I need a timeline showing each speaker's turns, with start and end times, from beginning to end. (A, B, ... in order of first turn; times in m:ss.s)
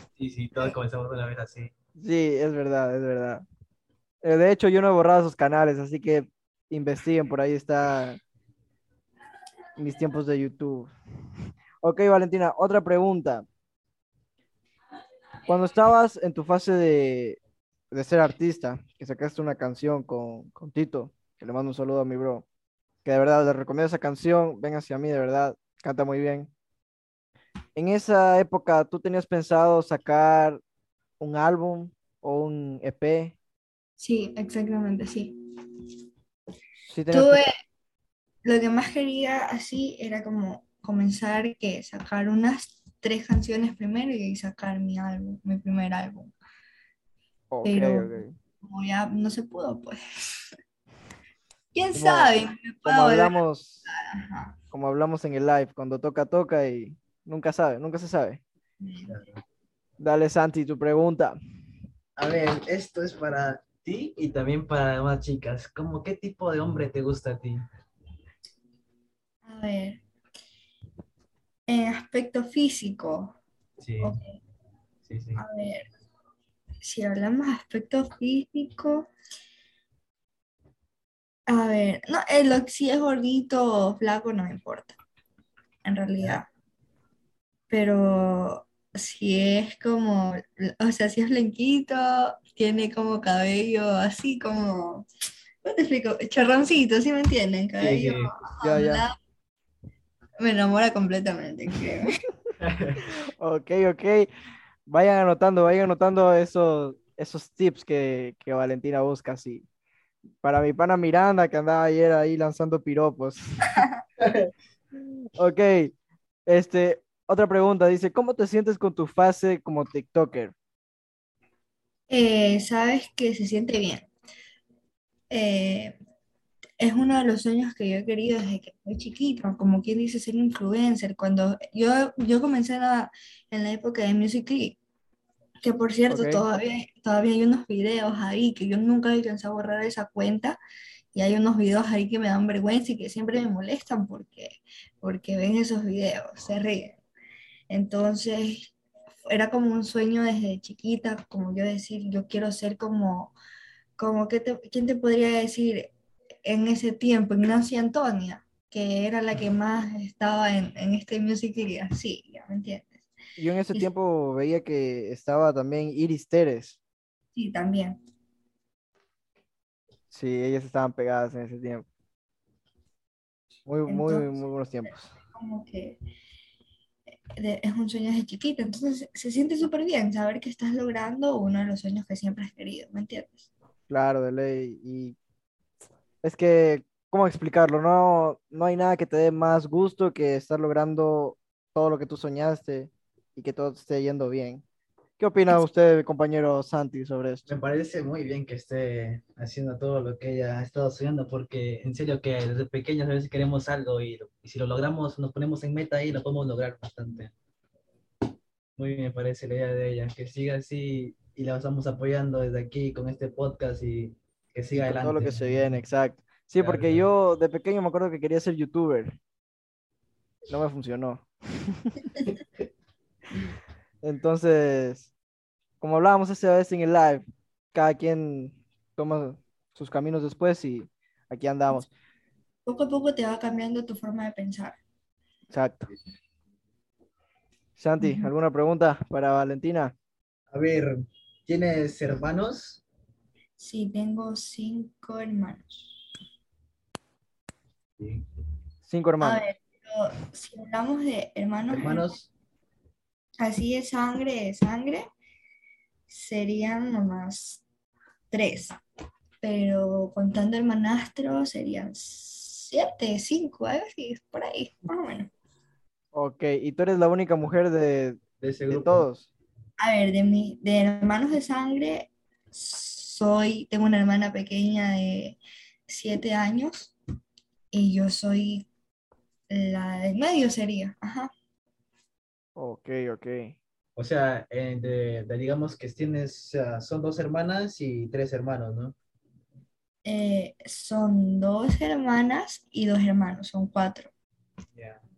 0:00.2-0:01.7 A
0:02.0-0:03.4 B
0:04.2-0:08.2 B
0:09.8-0:10.9 B
0:11.8-0:13.4 B
0:15.5-0:17.4 B
0:17.9-0:22.4 B
0:23.0-0:26.5 B
0:27.8-0:30.6 B
0:31.2-0:33.3 B
0:34.0-0:35.4 C
0:36.9-0:37.4 B
0:37.1-0:37.5 C
0:38.4-0:46.3 C
0:47.5-0:48.4 B
0:47.6-0:50.5 C
0:51.7-0:54.6 C
0:52.0-0:53.8 B
0:54.7-0:58.4 B
0:58.8-0:59.2 C
0:59.1-0:59.4 A
1:00.0-1:01.4 B
1:02.2-1:07.6 A
1:09.4-1:10.0 C
1:11.7-1:13.4 C
1:13.8-1:14.2 A
1:14.0-1:14.4 C
1:15.1-1:15.4 A
1:15.4-1:15.9 C
1:16.8-1:19.1 C
1:21.5-1:25.0 C
1:25.8-1:26.5 C
1:27.7-1:35.1 C
1:35.6-1:39.2 C
1:37.8-1:38.3 A
1:38.6-1:39.0 B
1:40.4-1:42.2 C
1:42.6-1:43.0 A
1:43.4-1:44.3 B
1:44.9-1:49.6 B
1:50.4-1:53.4 B
1:54.2-1:54.5 A
1:55.4-1:55.9 B
1:56.5-2:00.5 B
2:02.1-2:04.1 C
2:05.3-2:06.0 C
2:06.8-2:14.8 C
2:15.6-2:20.6 C
2:16.1-2:16.4 B
2:21.1-2:27.0 C
2:27.7-2:28.7 C
2:29.3-2:33.4 C
2:34.0-2:35.9 C
2:36.4-2:43.0 C
2:43.4-2:46.8 B
2:47.4-2:48.0 C
2:50.1-2:51.8 B
2:53.7-2:55.1 B
2:53.9-2:54.3 C
2:54.9-2:56.0 C
2:57.4-3:03.5 C
3:03.9-3:05.2 B
3:06.2-3:14.6 B
3:15.2-3:17.5 B
3:17.5-3:27.3 A
3:28.8-3:35.7 A
3:34.7-3:39.2 B
3:36.6-3:37.1 A
3:40.5-3:41.9 B
3:44.0-3:45.1 B
3:45.8-3:51.9 B
3:52.7-3:54.8 C
3:55.5-3:55.9 B
3:57.8-3:59.9 B
3:58.0-3:58.3 C
4:00.5-4:02.8 A
4:03.6-4:05.8 C
4:08.0-4:08.2 A
4:08.9-4:09.4 B
4:09.2-4:12.1 C
4:11.7-4:12.3 A
4:13.4-4:15.1 C
4:16.1-4:17.6 C
4:18.3-4:18.8 C
4:19.4-4:25.3 C
4:26.1-4:29.3 B
4:28.4-4:29.0 A
4:29.8-4:36.9 C
4:37.7-4:38.7 C
4:39.5-4:41.3 C
4:42.6-4:43.6 B
4:44.0-4:49.0 A
4:50.0-4:54.1 C
4:54.8-4:55.0 A